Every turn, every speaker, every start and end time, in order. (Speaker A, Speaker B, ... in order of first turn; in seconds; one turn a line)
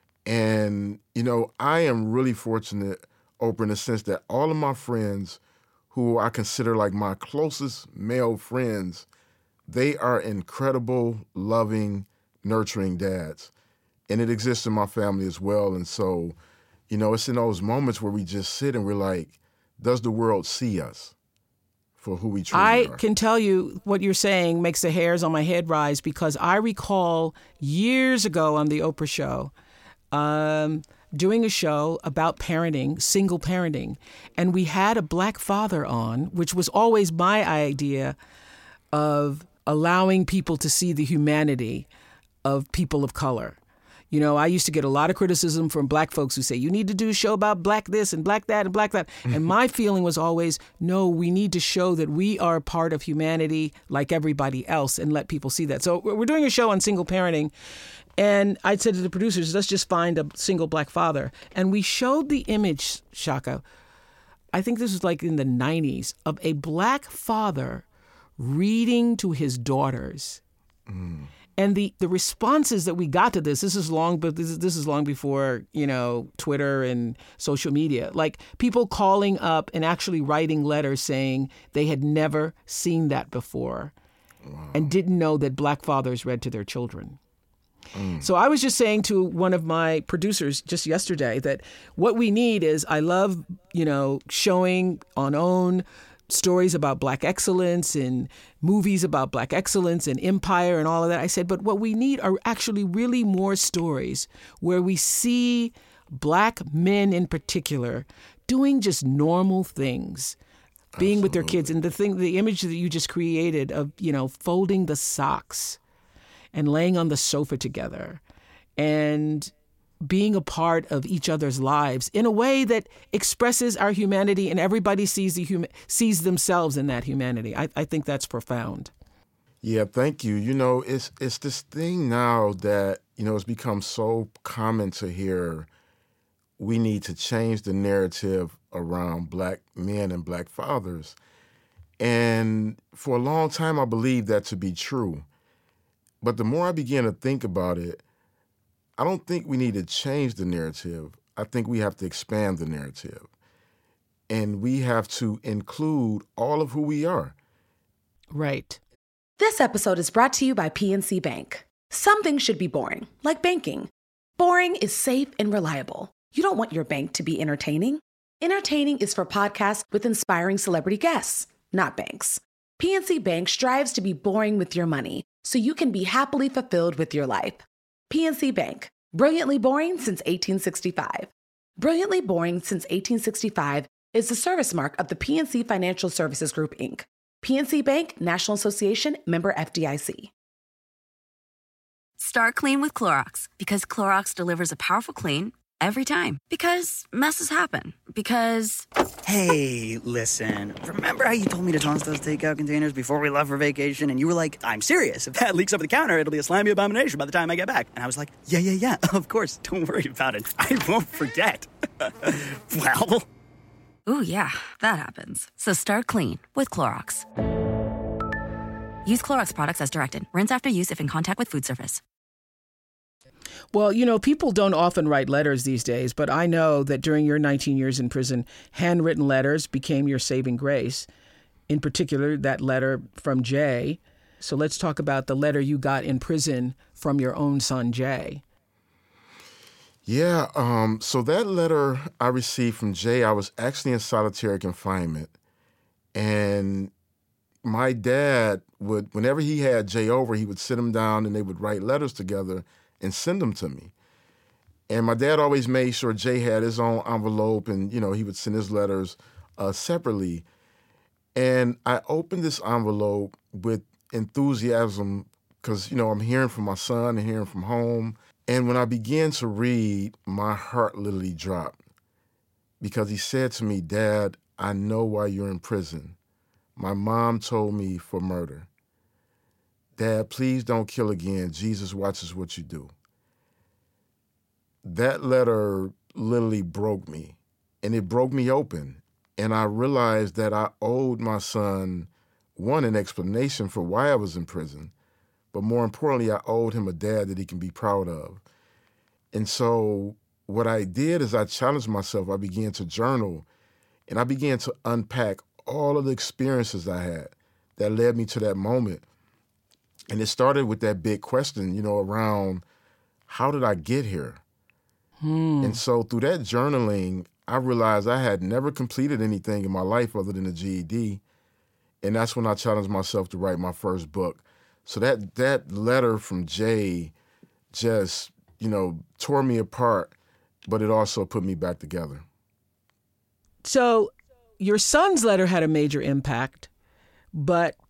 Speaker A: 0.3-5.4
Speaker A: 5.9-9.1
Speaker A: 9.7-13.5
Speaker A: 14.1-16.4
Speaker A: 16.9-21.1
Speaker A: 22.0-23.0
Speaker B: 22.5-29.5
Speaker B: 30.1-38.2
Speaker B: 38.9-41.9
Speaker B: 42.4-43.6
Speaker B: 44.1-57.5
Speaker B: 58.2-63.6
Speaker B: 64.5-67.8
Speaker B: 68.4-70.4
Speaker A: 70.9-71.3
Speaker B: 71.6-83.9
Speaker A: 84.4-84.9
Speaker B: 84.7-87.2
Speaker A: 87.9-88.3
Speaker B: 88.2-110.4
Speaker A: 111.0-111.8
Speaker B: 111.0-115.8
Speaker B: 116.5-118.2
Speaker B: 118.8-128.9
Speaker A: 129.6-135.7
Speaker A: 136.6-141.2
Speaker A: 142.0-145.3
Speaker A: 146.2-148.0
Speaker A: 149.0-153.3
Speaker A: 154.3-157.3
Speaker B: 158.3-158.8
Speaker C: 159.4-190.3
Speaker D: 192.2-198.9
Speaker E: 199.2-213.3
Speaker D: 214.1-217.3
Speaker D: 219.1-222.0
Speaker B: 223.7-231.1
Speaker B: 231.7-238.4
Speaker A: 240.1-245.3
Speaker A: 246.1-246.9
Speaker A: 247.6-253.9
Speaker A: 254.9-260.5
Speaker A: 261.4-271.8
Speaker A: 272.8-276.2
Speaker A: 276.8-278.7
Speaker A: 280.0-282.9
Speaker A: 284.8-294.9
Speaker A: 295.5-298.4
Speaker A: 299.3-303.5
Speaker A: 304.1-309.0
Speaker A: 310.1-312.6
Speaker A: 313.3-314.4
Speaker B: 315.2-315.8
Speaker A: 315.6-321.2
Speaker A: 322.0-327.1
Speaker A: 327.7-330.1
Speaker A: 330.7-332.2
Speaker B: 333.6-336.7
Speaker B: 337.3-337.8